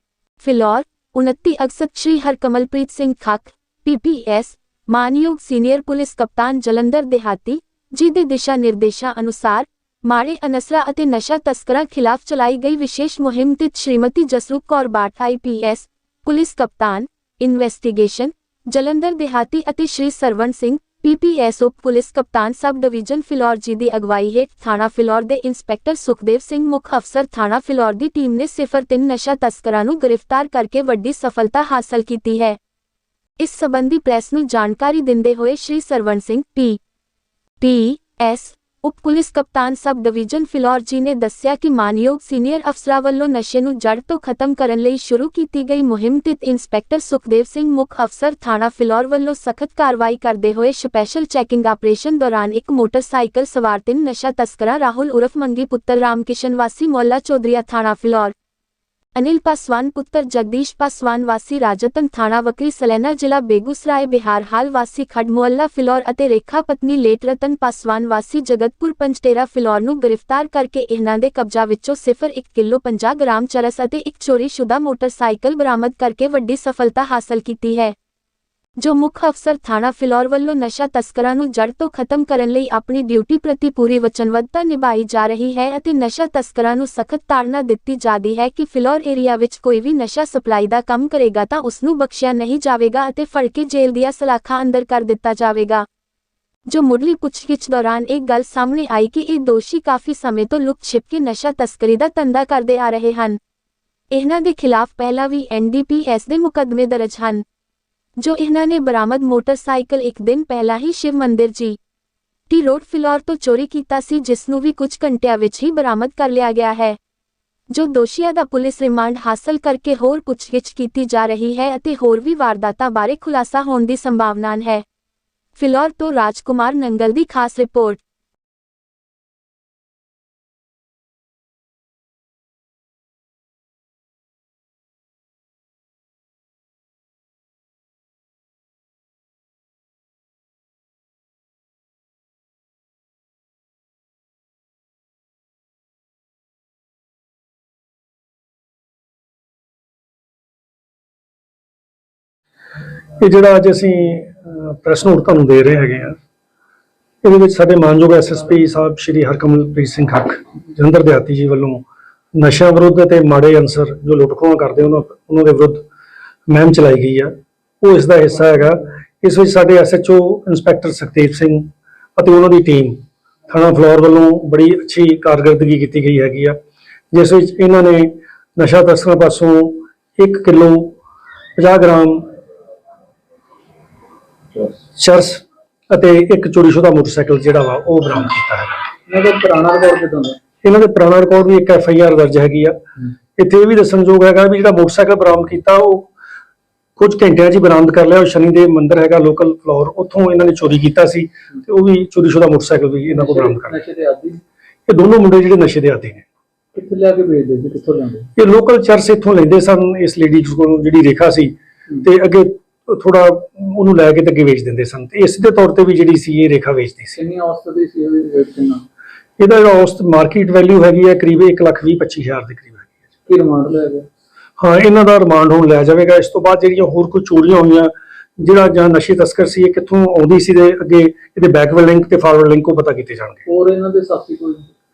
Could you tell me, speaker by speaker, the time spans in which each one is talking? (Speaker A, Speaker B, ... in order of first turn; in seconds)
Speaker A: 0.4-32.6, 33.4-36.8, 37.6-58.3, 59.1-78.0, 78.8-95.9, 96.7-103.4, 104.1-107.4, 108.2-111.8, 112.5-117.0, 117.7-124.8, 125.6-128.0
Speaker B: 153.2-156.2, 157.2-161.8, 162.3-165.9, 166.5-176.6, 177.1-181.0, 181.6-182.3, 185.0-188.8, 190.6-192.8, 193.4-196.1, 197.0-203.8, 204.9-206.2, 208.4-217.2, 219.4-222.9, 224.6-233.4
Speaker C: 189.1-190.4, 203.1-204.4, 206.8-208.3, 217.2-218.8, 223.3-224.1, 233.5-234.7